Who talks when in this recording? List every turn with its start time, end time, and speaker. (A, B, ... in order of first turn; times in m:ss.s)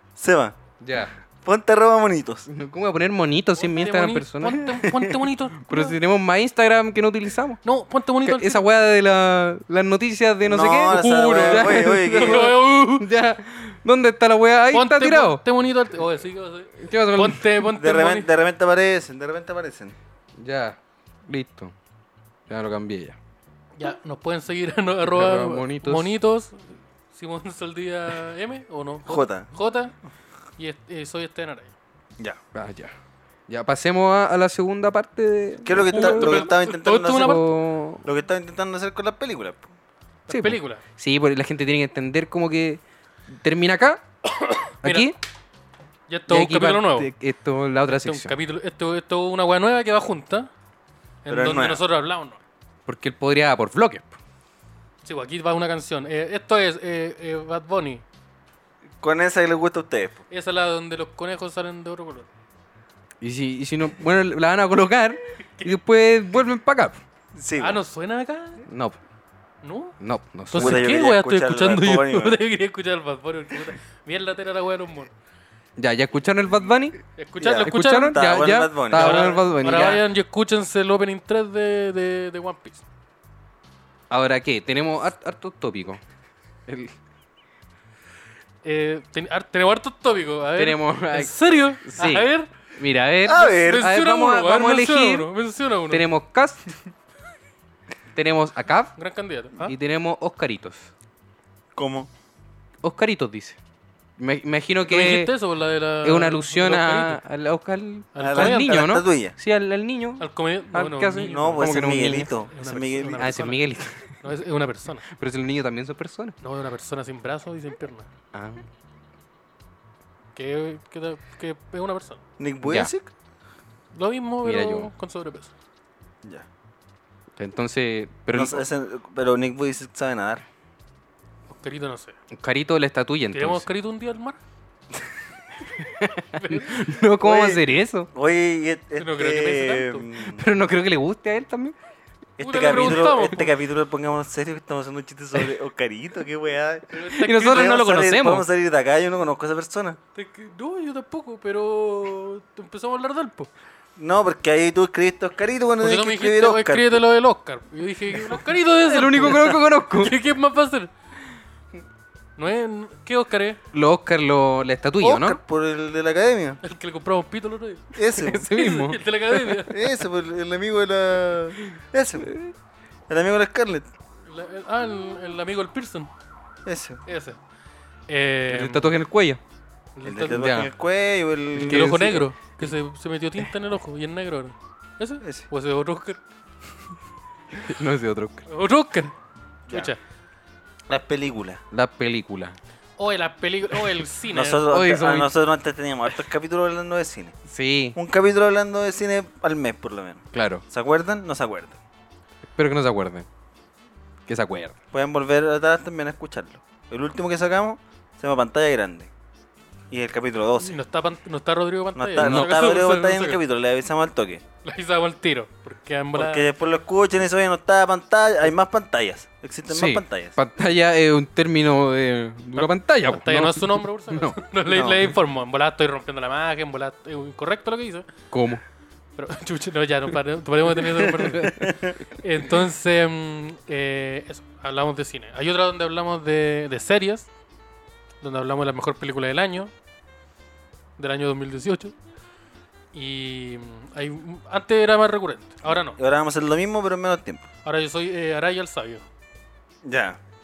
0:00.2-0:00.6 A
0:00.8-0:01.1 B
0:01.4-0:02.5 A
0:02.5-0:04.7 B
0:03.6-0:06.0 C
0:04.8-0:05.1 A
0:05.6-0:07.6 B
0:07.6-0:08.6 C
0:08.2-0:15.4 B
0:10.4-0:12.5 A
0:10.9-0:13.1 C
0:14.7-0:18.3 C
0:16.8-0:17.5 B
0:17.8-0:20.0 A
0:20.4-0:21.7 B
0:22.5-0:23.2 B
0:23.8-0:29.9 C
0:25.0-0:26.2 B
0:29.1-0:29.5 A
0:30.6-0:31.8 C
0:32.5-0:32.9 B
0:33.5-0:38.0 B
0:35.6-0:37.4 A
0:35.9-0:37.4 C
0:38.0-0:39.7 A
0:40.3-0:40.8 C
0:40.3-0:44.0 B
0:44.4-0:45.1 C
0:44.8-0:45.1 B
0:46.1-0:47.1 C
0:46.3-0:48.3 B
0:47.9-0:50.5 C
0:51.2-0:52.4 C
0:51.3-0:51.8 A
0:52.9-0:54.2 B
0:55.0-0:58.0 C
0:59.0-1:00.2 A
1:00.3-1:02.3 C
1:03.2-1:07.0 B
1:07.4-1:07.8 A
1:07.6-1:08.6 C
1:08.7-1:09.0 B
1:09.6-1:10.0 C
1:10.0-1:10.9 B
1:10.5-1:15.1 C
1:10.6-1:12.4 A
1:15.8-1:17.0 B
1:17.2-1:18.2 C
1:17.4-1:20.0 A
1:17.6-1:20.0 B
1:18.9-1:22.8 C
1:24.1-1:26.0 B
1:26.7-1:27.0 B
1:28.6-1:32.5 C
1:30.6-1:35.3 B
1:33.2-1:33.9 A
1:33.3-1:36.0 C
1:35.9-1:36.7 B
1:38.1-1:39.0 B
1:39.0-1:39.8 C
1:39.6-1:40.9 B
1:41.8-1:42.1 A
1:42.8-1:43.6 B
1:44.2-1:45.3 B
1:44.9-1:47.2 C
1:46.0-1:52.3 B
1:48.2-1:48.8 C
1:48.2-1:49.4 A
1:50.2-1:53.6 C
1:51.3-1:53.3 A
1:53.2-1:54.2 B
1:54.2-1:55.1 C
1:55.1-1:56.4 B
1:56.4-1:58.1 C
1:58.3-1:58.7 B
2:00.4-2:02.2 C
2:02.4-2:03.1 A
2:02.7-2:02.9 B
2:04.0-2:05.5 C
2:04.4-2:04.9 B
2:07.4-2:08.6 B
2:08.3-2:10.4 A
2:11.5-2:12.2 C
2:12.3-2:13.6 B
2:13.3-2:14.4 C
2:15.8-2:18.1 B
2:16.3-2:16.7 C
2:17.2-2:17.6 A
2:18.1-2:20.4 A
2:19.0-2:20.1 C
2:20.3-2:21.8 B
2:22.4-2:30.0 A
2:22.4-2:23.5 C
2:26.9-2:27.8 C
2:27.1-2:28.5 B
2:30.2-2:33.5 C
2:34.0-2:37.0 A
2:35.8-2:40.9 C
2:38.8-2:40.2 B
2:42.4-2:43.6 C
2:43.7-2:45.4 B
2:45.0-2:46.6 A
2:46.6-2:49.9 C
2:48.0-2:48.5 A
2:48.1-2:49.6 B
2:49.7-2:52.4 A
2:52.2-2:52.5 B
2:53.1-2:53.9 A
2:54.3-2:56.1 C
2:56.7-2:57.0 A
2:57.1-2:57.4 C
2:58.1-2:58.9 C
2:58.5-2:59.4 B
3:00.0-3:00.5 C
3:00.0-3:02.2 A
3:00.3-3:00.7 B
3:01.6-3:06.2 C
3:01.6-3:02.2 B
3:07.6-3:08.4 B
3:08.5-3:09.1 C
3:09.7-3:10.0 C
3:10.9-3:11.6 A
3:11.7-3:12.6 B
3:13.0-3:14.7 C
3:14.3-3:17.4 A
3:14.7-3:15.3 B
3:17.5-3:18.0 B
3:17.9-3:21.8 A
3:20.3-3:20.6 B
3:22.6-3:23.3 B
3:24.3-3:24.8 B
3:24.9-3:29.1 A
3:29.9-3:30.8 A
3:30.6-3:33.4 C
3:32.0-3:34.4 A
3:32.2-3:32.5 B
3:34.6-3:36.5 C
3:36.2-3:40.3 A
3:39.7-3:44.4 B
3:42.6-3:48.1 C
3:44.7-3:45.0 A
3:48.3-3:48.6 B
3:49.2-3:57.3 C
3:51.3-3:51.7 B
3:51.6-3:52.0 A
3:58.2-3:59.7 C
4:01.0-4:02.0 C
4:02.9-4:06.0 C
4:05.7-4:07.4 A
4:07.6-4:09.0 C
4:09.8-4:10.2 A